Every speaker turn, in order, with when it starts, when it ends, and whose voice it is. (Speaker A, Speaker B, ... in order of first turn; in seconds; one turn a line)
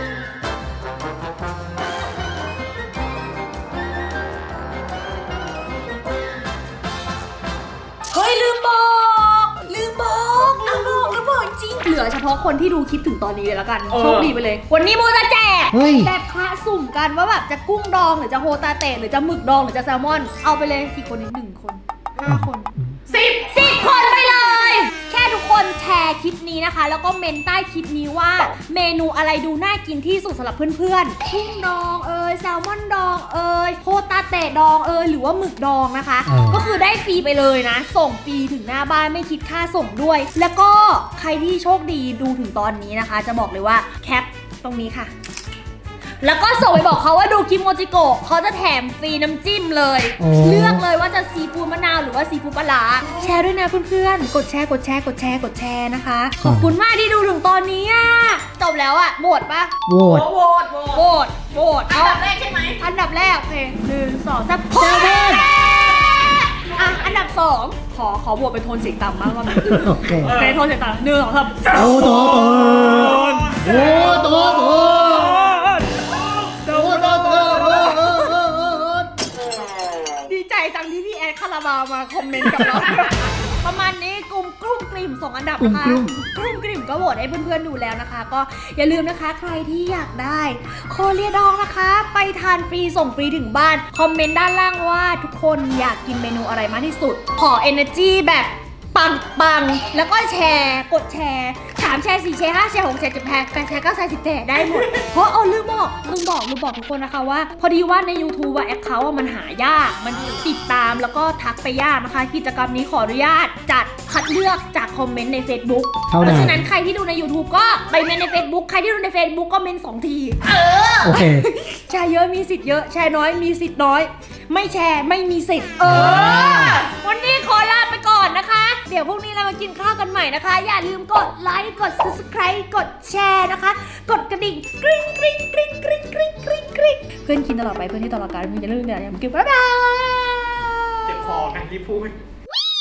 Speaker A: 8.1-22.7
Speaker B: 13.9-14.3
Speaker C: 15.7-16.1
Speaker C: 22.2-22.9
Speaker B: 23.1-23.6
Speaker A: 23.3-45.1
Speaker C: 36.2-36.6
Speaker A: 46.2-59.7
Speaker C: 50.2-50.8
Speaker C: 56.4-56.8
Speaker C: 59.9-60.3
Speaker B: 60.0-61.0
Speaker A: 60.9-62.2
Speaker B: 61.9-62.8
Speaker A: 62.8-72.1
Speaker C: 64.8-65.3
Speaker B: 66.0-66.9
Speaker C: 69.5-70.4
Speaker C: 71.7-75.4
Speaker A: 73.7-75.9
Speaker B: 73.7-74.2
Speaker B: 76.6-77.9
Speaker A: 76.7-79.0
Speaker C: 76.8-78.6
Speaker A: 80.2-120.5
Speaker C: 85.6-86.2
Speaker C: 116.1-116.6
Speaker B: 120.5-121.1
Speaker C: 121.0-121.5
Speaker A: 121.0-140.5
Speaker B: 125.8-126.9
Speaker C: 125.9-126.8
Speaker B: 141.1-142.1